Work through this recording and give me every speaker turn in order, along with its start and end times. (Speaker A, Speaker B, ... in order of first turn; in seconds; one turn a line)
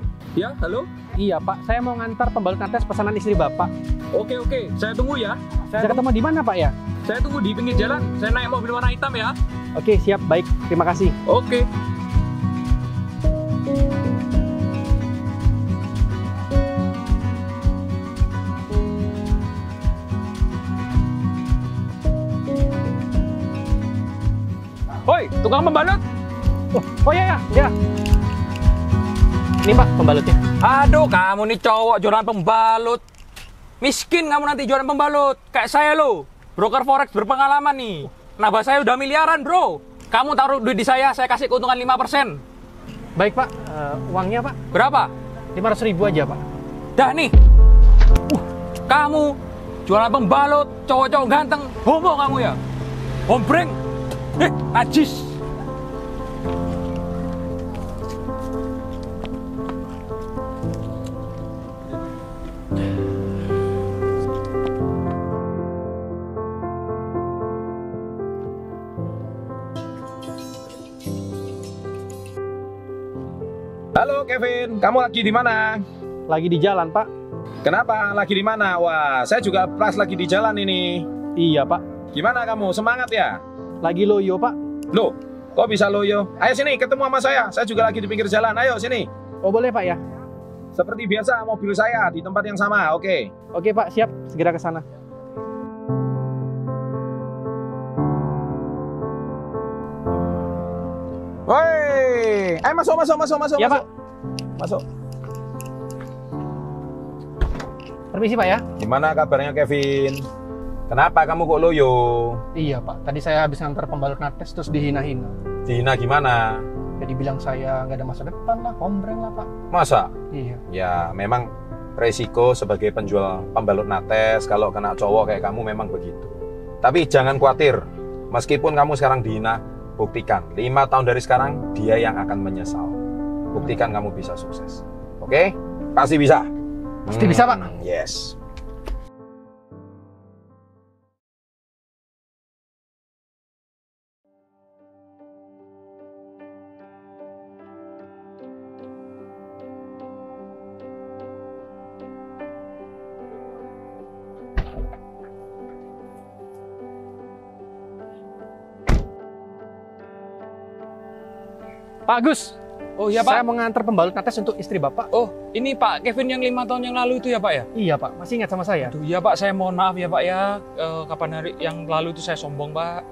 Speaker A: 0.3-0.9
Speaker B: 1.1-3.7
Speaker A: 4.1-6.0
Speaker B: 5.8-6.8
Speaker A: 7.0-9.4
Speaker B: 9.8-11.2
Speaker A: 11.2-11.7
Speaker A: 25.1-26.0
Speaker B: 26.7-27.7
Speaker B: 29.6-30.4
Speaker A: 30.6-33.0
Speaker A: 33.8-42.4
Speaker B: 43.2-44.6
Speaker A: 44.7-45.1
Speaker B: 45.5-46.4
Speaker A: 47.0-47.3
Speaker A: 48.9-52.6
Speaker A: 53.3-53.8
Speaker A: 54.4-55.4
Speaker C: 74.0-75.8
Speaker B: 76.3-77.1
Speaker C: 77.6-81.1
Speaker B: 81.4-81.8
Speaker C: 82.1-83.4
Speaker B: 83.8-84.6
Speaker C: 84.9-89.1
Speaker B: 89.4-90.0
Speaker C: 90.8-93.3
Speaker B: 93.5-94.8
Speaker C: 101.5-103.8
Speaker B: 103.6-103.8
Speaker C: 104.6-104.8
Speaker B: 108.1-108.6
Speaker C: 108.8-110.2
Speaker C: 110.9-112.4
Speaker B: 112.5-115.3
Speaker C: 115.7-116.6
Speaker B: 117.0-119.5
Speaker C: 119.7-120.1
Speaker B: 120.3-120.6
Speaker C: 120.7-133.0
Speaker C: 133.5-136.5
Speaker C: 137.1-138.3
Speaker B: 137.1-137.7
Speaker B: 162.1-162.6
Speaker A: 163.0-163.4
Speaker B: 163.1-165.1
Speaker A: 165.1-167.7
Speaker B: 167.7-168.9
Speaker A: 168.8-173.0